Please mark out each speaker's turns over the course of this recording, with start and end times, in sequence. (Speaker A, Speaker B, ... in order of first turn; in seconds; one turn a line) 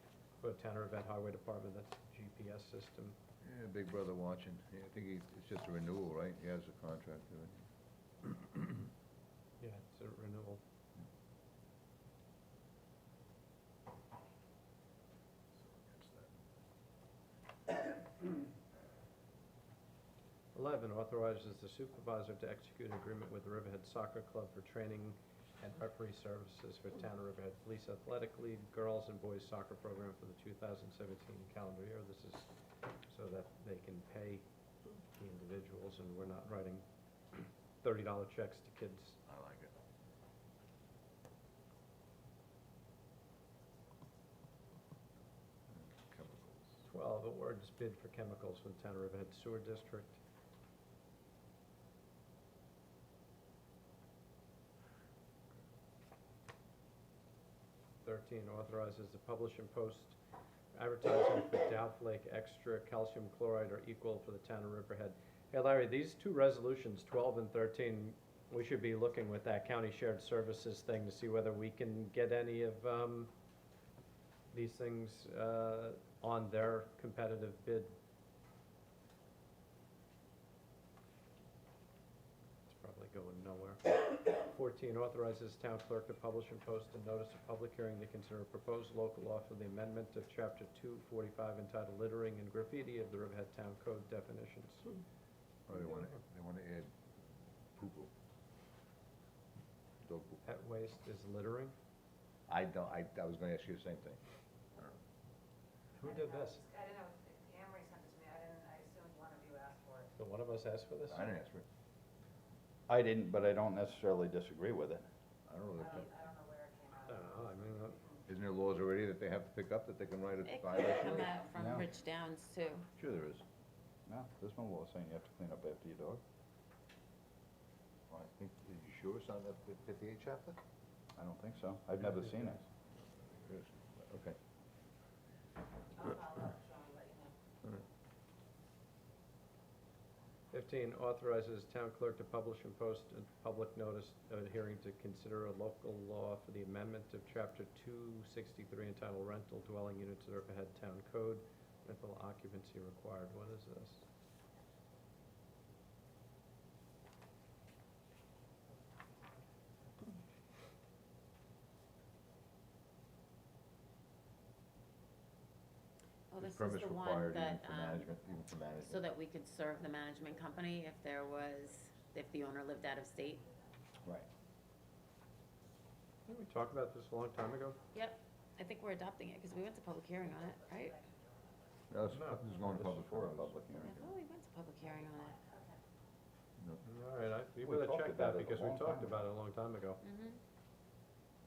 Speaker A: 0.4-3.2
Speaker B: 3.4-7.6
Speaker B: 8.2-8.8
Speaker A: 9.6-10.6
Speaker B: 15.6-16.4
Speaker A: 20.5-32.5
Speaker A: 33.1-34.4
Speaker A: 35.1-39.2
Speaker B: 39.3-39.7
Speaker B: 45.7-46.8
Speaker A: 46.9-50.2
Speaker A: 58.0-60.2
Speaker A: 60.7-73.3
Speaker A: 74.5-78.0
Speaker A: 82.7-94.9
Speaker B: 95.7-96.9
Speaker B: 97.8-98.1
Speaker B: 100.0-100.4
Speaker A: 100.4-101.8
Speaker B: 102.5-104.2
Speaker A: 106.0-106.6
Speaker C: 106.0-110.1
Speaker A: 110.2-111.3
Speaker B: 111.1-111.6
Speaker D: 112.9-115.0
Speaker B: 115.5-116.3
Speaker C: 115.8-118.2
Speaker A: 117.1-118.0
Speaker B: 118.3-121.5
Speaker E: 120.5-122.9
Speaker D: 121.5-121.9
Speaker B: 123.0-123.4
Speaker D: 124.1-126.2
Speaker B: 128.1-130.6
Speaker D: 131.2-132.6
Speaker B: 133.2-134.4
Speaker C: 135.9-137.3
Speaker A: 140.5-154.0
Speaker E: 166.3-168.1
Speaker B: 166.4-169.1
Speaker E: 168.8-173.4
Speaker C: 169.7-170.9
Speaker C: 171.6-172.0
Speaker C: 172.8-173.7
Speaker A: 176.3-177.8
Speaker E: 177.9-181.0
Speaker C: 180.1-181.8
Speaker B: 181.9-184.0
Speaker A: 182.1-182.4
Speaker D: 182.7-184.1
Speaker E: 183.8-185.5
Speaker C: 184.8-185.8
Speaker A: 186.8-190.0
Speaker D: 187.6-189.2
Speaker E: 190.0-190.4